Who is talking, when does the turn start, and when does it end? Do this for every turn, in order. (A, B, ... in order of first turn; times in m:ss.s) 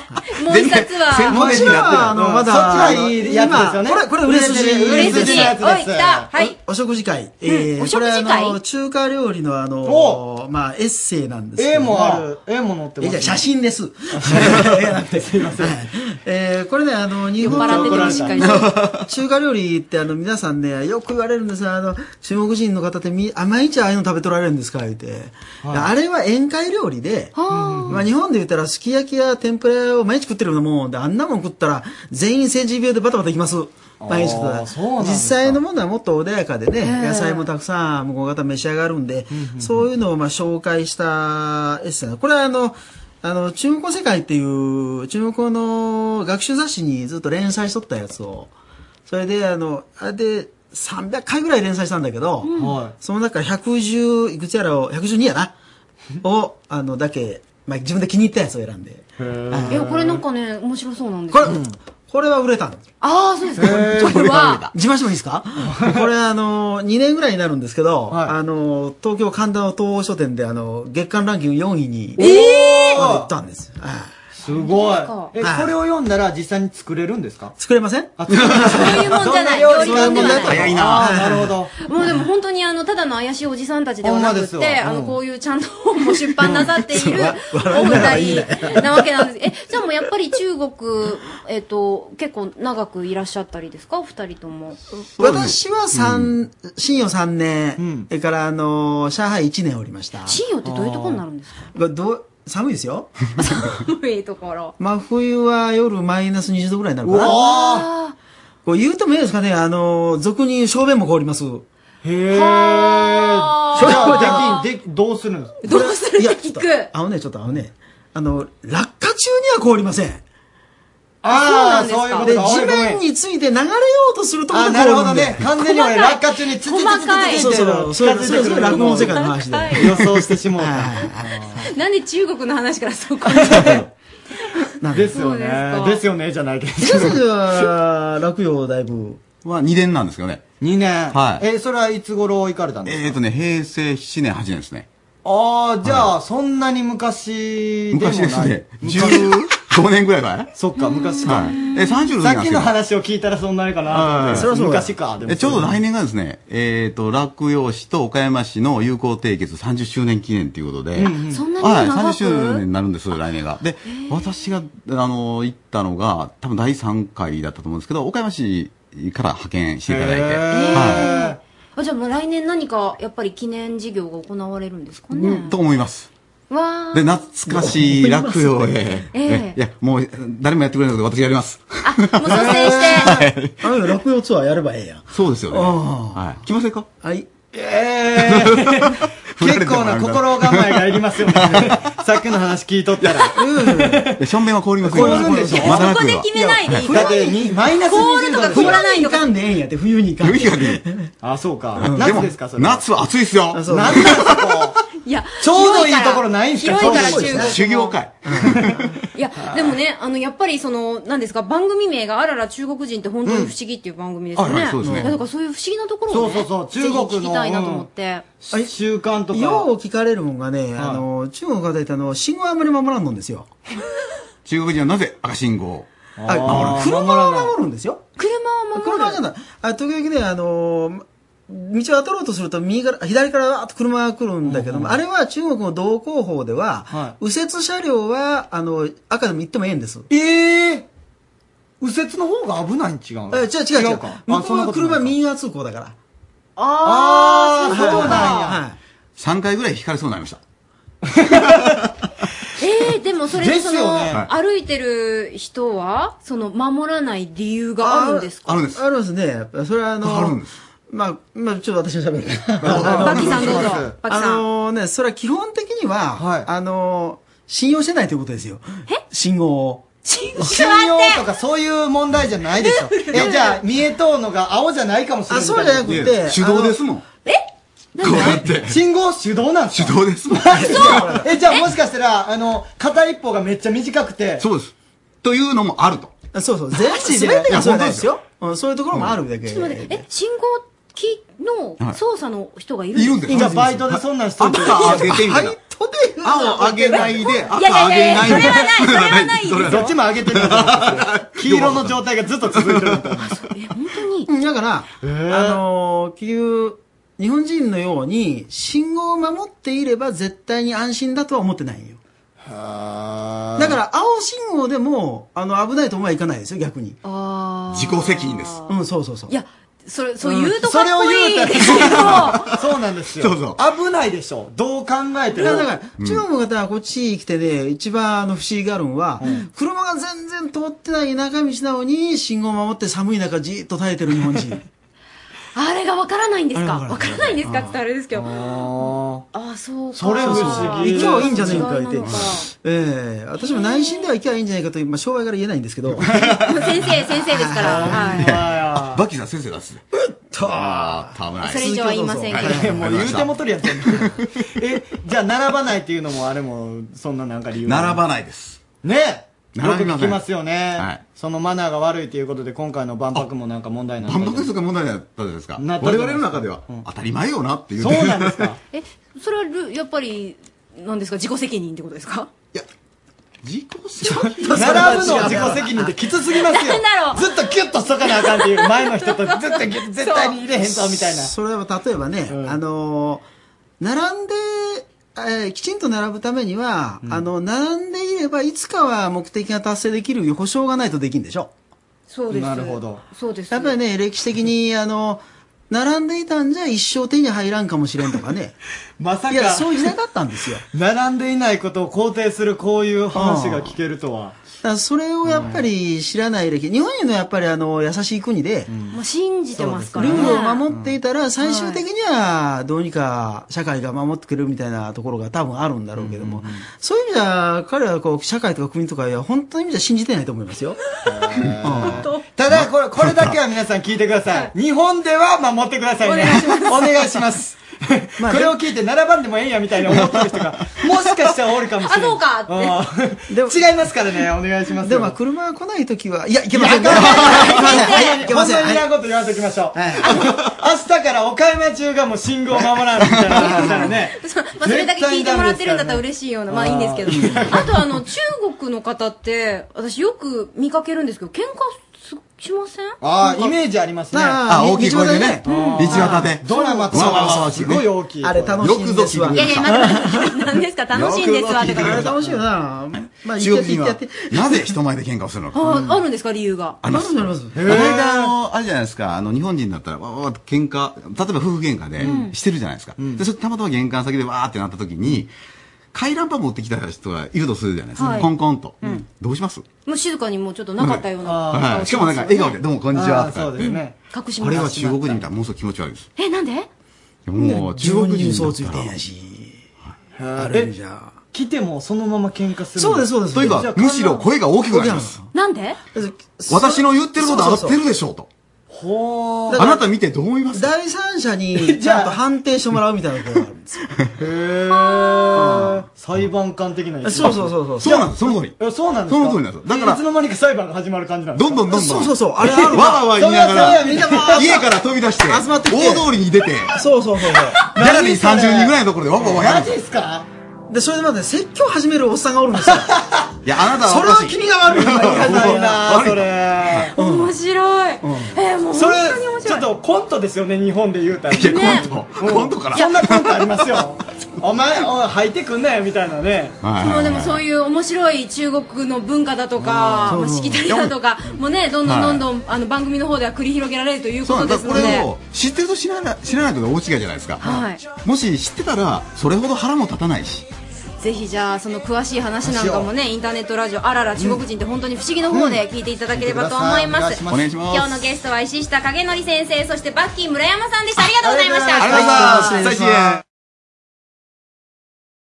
0:00.3-0:01.9 A
0:00.4-0:02.2 B
0:01.3-0:05.6 C
0:01.3-0:06.3 D
0:04.8-0:06.6 A
0:06.4-0:12.3 C
0:07.5-0:08.6 A
0:09.8-0:10.2 D
0:11.6-0:13.5 D
0:13.0-0:27.3 C
0:14.2-0:15.8 D
0:17.4-0:18.7 A
0:17.4-0:18.5 D
0:18.4-0:19.1 B
0:25.6-0:25.9 D
0:27.4-0:28.0 A
0:27.5-0:28.1 D
0:27.9-0:48.5 C
0:34.0-0:35.6 D
0:36.8-0:37.5 A
0:39.3-0:39.9 D
0:49.1-0:55.5 C
0:52.4-0:52.7 A
0:52.6-0:53.0 D
0:56.2-0:59.9 C
0:59.2-1:00.2 D
0:59.7-1:01.6 A
1:01.3-1:02.8 C
1:01.4-1:01.8 D
1:03.0-1:04.7 A
1:03.6-1:04.3 D
1:04.0-1:04.7 B
1:04.7-1:12.3 C
1:05.7-1:06.0 D
1:08.1-1:08.4 D
1:12.2-1:13.3 D
1:12.2-1:13.0 A
1:12.9-1:14.1 C
1:14.4-1:17.6 D
1:14.5-1:15.3 A
1:15.4-1:15.7 C
1:17.6-1:18.2 C
1:18.2-1:21.7 D
1:18.5-1:20.7 A
1:19.7-1:21.5 C
1:20.4-1:21.1 B
1:21.8-1:34.8 A
1:24.0-1:25.2 D
1:26.4-1:26.7 D
1:26.5-1:29.0 C
1:35.2-1:36.3 B
1:35.2-1:40.4 C
1:37.8-1:38.1 D
1:40.3-1:41.6 A
1:40.6-1:41.2 D
1:41.7-1:43.1 C
1:43.4-1:44.7 A
1:44.8-1:47.4 C
1:47.0-1:47.9 D
1:47.2-1:48.2 A
1:48.6-1:51.6 C
1:52.0-1:55.6 D
1:52.3-1:54.7 A
1:53.8-1:54.5 C
1:55.6-1:56.9 A
1:55.7-2:00.2 C
2:01.2-2:03.0 D
2:01.3-2:02.3 A
2:02.2-2:05.5 C
2:04.5-2:11.5 D
2:05.5-2:07.6 A
2:07.2-2:11.7 C
2:08.2-2:10.0 A
2:11.5-2:13.8 A
2:13.3-2:13.9 D
2:14.8-2:15.1 C
2:14.9-2:17.2 D
2:15.1-2:16.0 A
2:16.8-2:19.3 C
2:19.3-2:20.4 B
2:20.6-2:23.2 D
2:21.1-2:21.4 B
2:22.8-2:24.9 B
2:25.2-2:29.4 D
2:25.8-2:26.1 B
2:27.9-2:30.5 B
2:30.6-2:31.6 D
2:30.8-2:32.1 A
2:31.3-2:32.8 B
2:32.2-2:35.8 D
2:33.9-2:51.1 B
2:34.3-2:34.8 C
2:41.0-2:41.4 D
2:41.2-2:42.7 A
2:43.8-2:44.5 A
2:49.9-2:51.4 D
2:50.5-2:55.6 A
2:55.1-2:56.1 B
2:56.5-2:57.3 A
2:56.9-3:03.6 B
2:57.5-2:59.0 C
2:59.1-2:59.6 A
3:01.8-3:03.2 A
3:02.3-3:03.2 D
3:02.8-3:06.2 C
3:05.1-3:06.9 B
3:07.0-3:07.3 C
3:07.5-3:14.1 D
3:08.2-3:11.9 B
3:13.0-3:13.3 B
3:13.4-3:14.1 C
3:14.2-3:16.9 B
3:14.8-3:15.8 D
3:14.9-3:17.5 C
3:15.2-3:19.3 A
3:16.9-3:18.8 D
3:18.4-3:21.1 C
3:20.2-3:20.8 B
3:21.2-3:22.8 D
3:21.8-3:22.3 C
3:21.8-3:24.6 B
3:23.5-3:24.2 C
3:23.7-3:24.8 D
3:25.0-3:28.0 A
3:25.4-3:27.6 D
3:26.8-3:27.6 C
3:27.4-3:28.9 B
3:28.2-3:28.6 C
3:29.1-3:38.2 A
3:34.4-3:35.2 B
3:34.8-3:35.1 C
3:36.1-3:37.9 D
3:38.4-3:39.7 D
3:39.3-3:43.5 C
3:40.8-3:41.0 D
3:44.4-3:45.9 B
3:46.2-3:47.6 D
3:46.3-3:48.0 C
3:46.4-3:46.8 B
3:48.2-3:49.2 A
3:48.8-4:00.1 C
3:54.4-3:55.0 D
3:56.9-3:57.2 D
4:00.1-4:00.9 D
4:01.8-4:05.2 D
4:03.3-4:06.0 C
4:06.6-4:08.5 A
4:06.8-4:08.6 D
4:07.7-4:08.8 C
4:09.2-4:10.4 B
4:12.6-4:18.7 A
4:13.4-4:14.2 D
4:17.8-4:20.4 C
4:18.4-4:18.8 B
4:20.0-4:20.5 B
4:20.9-4:29.9 C
4:22.6-4:23.5 B
4:22.6-4:24.0 D
4:22.7-4:24.4 A
4:26.2-4:26.5 D
4:30.0-4:31.2 A
4:30.4-4:36.0 D
4:32.6-4:33.6 A
4:35.3-4:36.8 C
4:35.8-4:37.0 B
4:38.0-4:38.4 A
4:38.0-4:38.8 B
4:38.7-4:44.4 D
4:39.7-4:41.2 B
4:40.5-4:41.2 C
4:40.6-4:41.7 A
4:44.4-4:46.2 B
4:46.3-4:50.0 C
4:46.8-4:47.7 D
4:47.5-4:48.1 B
4:48.9-4:49.2 B
4:49.4-4:53.4 A
4:52.9-4:55.6 B
4:53.3-4:53.8 C
4:53.3-4:55.1 D
4:54.7-4:57.2 C
4:56.2-5:03.1 B
4:56.4-5:00.0 A
4:59.6-5:03.4 D
5:03.2-5:04.3 A
5:04.3-5:12.0 C
5:05.0-5:05.6 D
5:13.6-5:17.0 C
5:17.0-5:18.7 A
5:17.7-5:18.6 B
5:18.7-5:19.3 C
5:19.3-5:22.5 A
5:20.5-5:25.7 D
5:22.0-5:22.5 B
5:23.2-5:23.6 B
5:25.4-5:34.6 C
5:26.0-5:26.2 B
5:29.2-5:29.5 A
5:35.6-5:38.3 A
5:36.6-5:37.7 C
5:38.2-5:39.3 D
5:39.3-5:42.5 A
5:40.0-5:41.7 D
5:40.2-5:46.1 C
5:42.0-5:42.3 B
5:43.4-5:44.1 A
5:46.0-5:46.8 B
5:46.3-5:48.4 A
5:47.2-5:48.2 C
5:47.6-5:49.0 D
5:48.0-5:49.8 B
5:49.9-5:52.8 C
5:50.4-5:51.7 B
5:51.4-5:52.6 A
5:52.3-5:54.2 B
5:52.5-5:58.0 D
5:57.6-5:58.6 B
5:58.8-6:04.5 D
5:59.5-6:01.0 B
6:04.0-6:08.5 B
6:05.6-6:06.8 D
6:07.8-6:08.6 D
6:08.7-6:12.3 A
6:13.4-6:15.6 B
6:14.0-6:15.9 C
6:14.5-6:21.3 D
6:16.4-6:17.3 A
6:18.0-6:20.4 A
6:20.6-6:23.2 C
6:22.3-6:22.6 D
6:23.8-6:31.5 C
6:32.1-6:33.8 A
6:32.3-6:33.0 D
6:33.5-6:38.6 C
6:39.0-6:39.8 D
6:39.3-6:40.6 C
6:40.7-6:44.4 D
6:43.1-6:43.7 C
6:44.6-6:48.7 C
6:45.2-6:45.6 D
6:48.7-6:49.0 D
6:48.9-6:50.6 A
6:49.6-6:51.0 D
6:50.0-7:00.8 C
6:51.4-6:51.8 A
6:56.0-6:56.6 D
7:01.1-7:15.2 D
7:01.6-7:02.0 C
7:01.8-7:02.3 A
7:02.5-7:03.4 B
7:06.0-7:06.9 A
7:08.2-7:08.6 C
7:11.8-7:12.8 A
7:13.3-7:13.6 C
7:14.8-7:18.9 C
7:16.5-7:27.7 D
7:16.9-7:18.3 A
7:19.7-7:20.3 C
7:20.0-7:20.3 A
7:23.3-7:33.5 A
7:33.0-7:34.4 D
7:34.1-7:36.2 C
7:34.4-7:37.9 B
7:35.4-7:36.7 A
7:35.4-7:38.6 D
7:36.9-7:37.2 C
7:38.2-7:40.4 C
7:38.6-7:39.9 B
7:39.3-7:42.1 A
7:40.9-7:42.2 B
7:41.7-7:44.7 C
7:43.2-7:45.6 B
7:45.5-7:46.8 A
7:45.7-7:45.9 D
7:46.8-7:55.3 B
7:46.9-7:47.7 C
7:47.6-7:48.3 D
7:52.0-7:52.4 A
7:53.0-7:53.2 D
7:55.9-7:59.6 B
7:58.0-7:58.3 A
7:59.9-8:02.6 A
8:00.8-8:03.8 B
8:01.2-8:01.7 D
8:02.9-8:05.2 D
8:03.6-8:04.8 A
8:04.4-8:06.1 B
8:06.2-8:06.7 A
8:07.3-8:09.0 B
8:07.4-8:09.6 C
8:10.2-8:10.7 D
8:10.4-8:11.2 C
8:11.3-8:14.2 D
8:12.8-8:13.6 C
8:13.3-8:15.2 B
8:14.7-8:15.3 C
8:15.3-8:15.8 A
8:15.9-8:17.8 C
8:16.5-8:18.3 B
8:18.7-8:19.7 D
8:19.5-8:19.8 C
8:19.5-8:20.7 B
8:20.5-8:23.9 C
8:21.6-8:22.2 D
8:24.2-8:31.6 D
8:24.7-8:25.6 A
8:25.4-8:25.8 C
8:27.0-8:28.1 C
8:27.8-8:30.0 B
8:31.4-8:36.8 B
8:31.7-8:34.6 C
8:33.1-8:34.6 D
8:35.3-8:36.1 C
8:36.8-8:37.7 C
8:37.6-8:39.7 B
8:37.8-8:40.3 D
8:40.7-8:42.9 C
8:43.4-8:46.9 B
8:43.8-8:45.9 C
8:44.7-8:46.9 D
8:46.9-8:49.7 A
8:47.0-8:47.3 C
8:48.0-8:48.4 C
8:48.7-8:56.5 D
8:51.3-8:53.8 B
8:51.4-8:51.9 A
8:52.7-8:53.1 A
8:56.6-8:57.4 B
8:56.8-9:05.1 A
8:59.6-9:00.9 B
9:00.0-9:00.7 C
9:01.8-9:02.2 B
9:04.2-9:10.5 B
9:07.4-9:07.8 A
9:11.0-9:22.6 A
9:12.4-9:12.9 D
9:14.2-9:14.4 D
9:15.3-9:17.5 D
9:17.3-9:18.0 B
9:21.2-9:23.0 D
9:21.8-9:23.2 B